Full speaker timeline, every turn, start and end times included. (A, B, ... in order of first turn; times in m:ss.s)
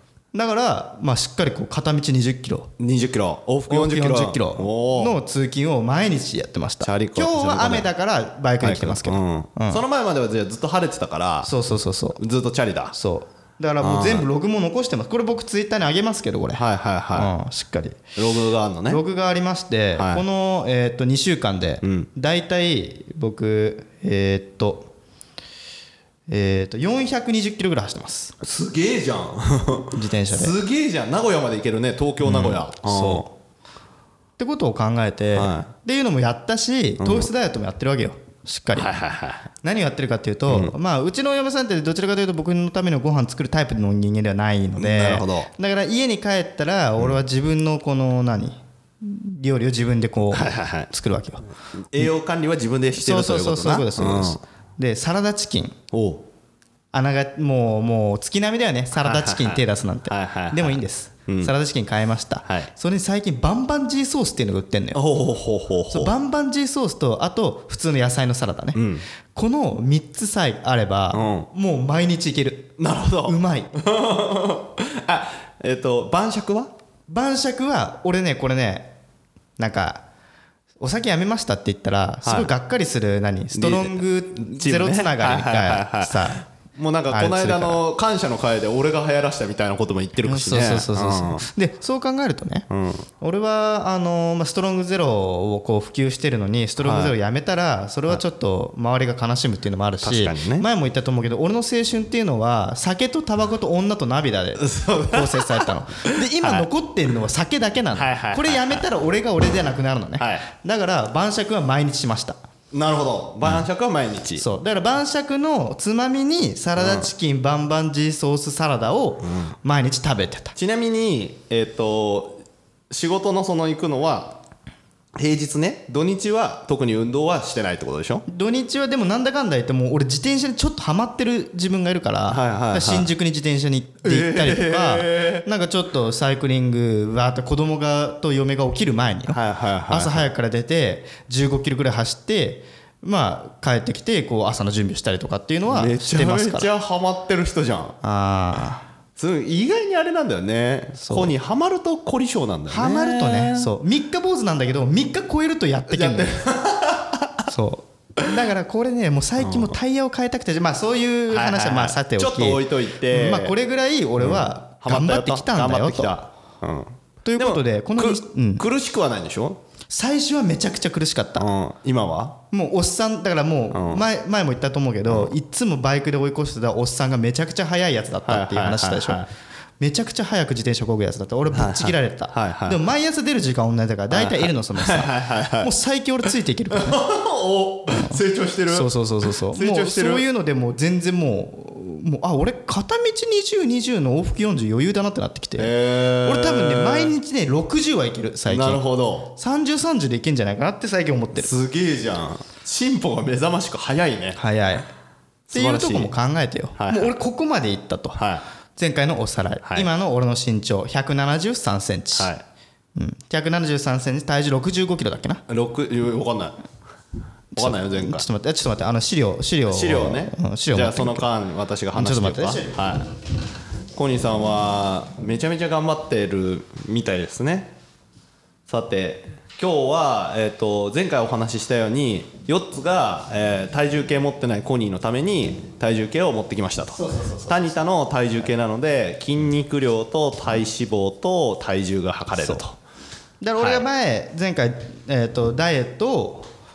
0:00.3-0:02.7 A
0:02.8-0:05.2 B
0:03.7-0:09.8 A
0:06.8-0:07.9 B
0:08.6-0:11.5 B
0:11.4-0:12.2 A
0:12.2-0:13.0 B
0:12.9-0:16.6 A
0:13.8-0:14.3 B
0:16.6-0:17.3 B
0:17.1-0:18.0 A
0:18.2-0:19.0 B
0:18.9-0:24.9 A
0:20.0-0:20.2 B
0:21.8-0:22.1 B
0:26.3-0:28.4 A
0:28.4-0:33.3 B
0:29.9-0:30.6 A
0:32.2-0:33.3 A
0:34.4-0:38.9 A
0:35.3-0:35.7 B
0:37.0-0:37.3 B
0:38.8-0:39.5 B
0:39.6-0:51.4 A
0:40.5-0:40.7 B
0:44.8-0:45.5 B
0:50.3-0:50.9 B
0:51.8-0:54.4 B
0:53.0-0:55.8 A
0:55.9-0:56.2 B
0:56.9-1:05.0 A
0:59.0-1:01.5 B
1:04.9-1:06.1 B
1:05.9-1:08.8 A
1:08.8-1:09.1 B
1:09.3-1:13.7 A
1:11.1-1:11.5 B
1:12.8-1:16.7 B
1:17.1-1:18.9 A
1:19.6-1:20.0 A
1:20.8-1:26.4 A
1:22.2-1:22.5 B
1:23.6-1:31.4 B
1:27.1-1:27.8 A
1:30.2-1:32.7 A
1:32.7-1:33.1 B
1:33.2-1:52.4 A
1:36.8-1:37.2 B
1:40.0-1:40.7 B
1:44.6-1:45.7 B
1:46.3-1:46.7 B
1:48.0-1:48.8 B
1:50.2-1:50.4 B
1:52.7-1:54.4 B
1:54.4-2:00.5 A
1:56.8-1:57.1 B
1:59.2-1:59.5 B
2:00.6-2:04.4 B
2:05.2-2:08.2 B
2:08.3-2:19.4 A
2:12.3-2:13.1 B
2:14.0-2:15.4 B
2:19.3-2:20.3 B
2:19.9-2:26.7 A
2:25.7-2:28.0 B
2:28.0-2:28.8 A
2:29.2-2:33.7 B
2:31.0-2:31.4 A
2:32.7-2:36.4 A
2:35.9-2:37.3 B
2:37.5-2:46.2 A
2:39.4-2:39.8 B
2:41.3-2:43.6 B
2:44.2-2:49.6 B
2:47.2-2:48.6 A
2:49.9-2:51.5 A
2:51.4-2:52.4 B
2:52.5-2:59.2 A
2:53.7-2:54.0 B
2:55.1-2:55.3 B
2:58.2-2:59.3 B
2:59.8-3:07.0 A
3:01.5-3:02.8 B
3:04.1-3:05.7 B
3:06.7-3:10.3 B
3:07.9-3:08.2 A
3:08.7-3:21.5 A
3:15.6-3:17.1 B
3:18.5-3:19.3 B
3:21.4-3:24.4 B
3:24.4-3:24.9 A
3:25.5-3:26.1 B
3:25.5-3:28.2 A
3:26.8-3:27.1 B
3:28.2-3:28.4 B
3:28.8-3:32.3 A
3:29.6-3:29.9 B
3:32.2-3:32.4 B
3:33.0-3:35.4 A
3:35.5-3:36.6 B
3:37.5-3:41.3 A
3:37.6-3:38.2 B
3:39.7-3:43.1 B
3:41.9-3:42.8 A
3:43.9-3:47.7 B
3:48.7-4:02.8 B
3:56.9-3:57.7 A
4:02.4-4:02.6 A
4:03.4-4:06.5 A
4:03.6-4:03.9 B